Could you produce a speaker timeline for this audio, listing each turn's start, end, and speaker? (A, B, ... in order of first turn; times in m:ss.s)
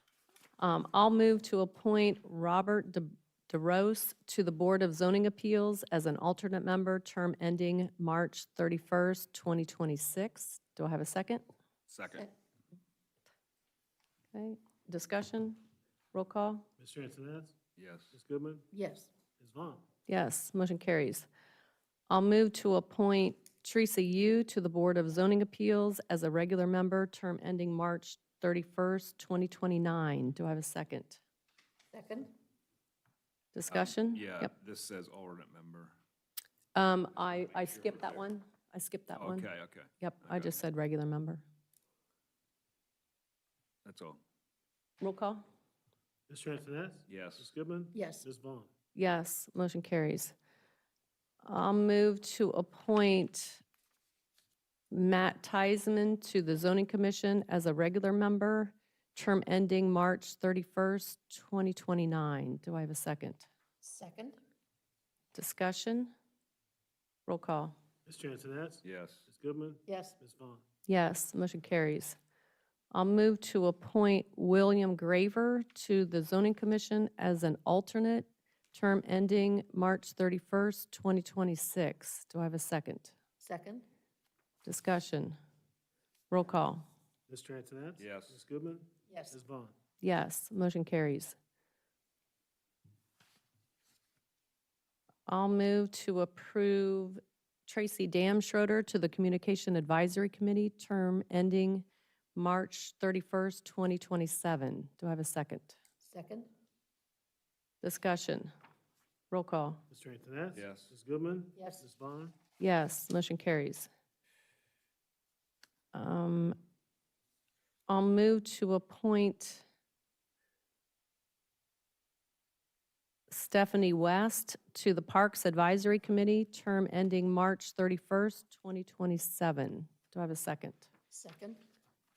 0:00.6-0:11.4 A
0:11.9-0:12.3 B
0:14.3-0:15.6 A
0:16.1-0:16.7 A
0:16.8-0:17.6 C
0:17.8-0:18.1 B
0:18.1-0:18.7 C
0:18.7-0:19.1 D
0:19.4-0:19.8 C
0:20.1-0:21.3 A
0:22.1-0:31.2 A
0:31.9-0:32.3 D
0:33.5-0:34.5 A
0:33.7-0:36.0 B
0:36.8-0:41.4 A
0:39.1-0:40.6 B
0:43.8-0:44.2 B
0:45.0-0:45.4 A
0:46.3-0:48.7 C
0:47.1-0:47.5 B
0:48.0-0:48.2 D
0:49.0-0:50.3 A
0:51.4-0:53.6 A
0:54.9-1:03.5 A
1:03.8-1:04.4 D
1:05.3-1:06.1 A
1:07.3-1:07.8 A
1:08.1-1:10.6 C
1:08.8-1:09.3 B
1:09.9-1:10.2 D
1:10.9-1:12.2 A
1:12.9-1:23.2 A
1:23.4-1:23.9 D
1:24.6-1:25.4 A
1:26.3-1:26.9 A
1:27.3-1:29.8 C
1:28.0-1:28.4 B
1:29.1-1:29.4 D
1:30.0-1:31.4 A
1:35.3-1:45.8 A
1:46.0-1:46.5 D
1:47.8-1:48.5 A
1:49.3-1:49.8 A
1:49.9-1:52.3 C
1:50.6-1:50.9 B
1:51.6-1:51.8 D
1:52.6-1:53.9 A
1:55.9-1:56.6 A
1:57.9-1:59.6 A
2:03.3-2:10.9 A
2:11.1-2:11.6 D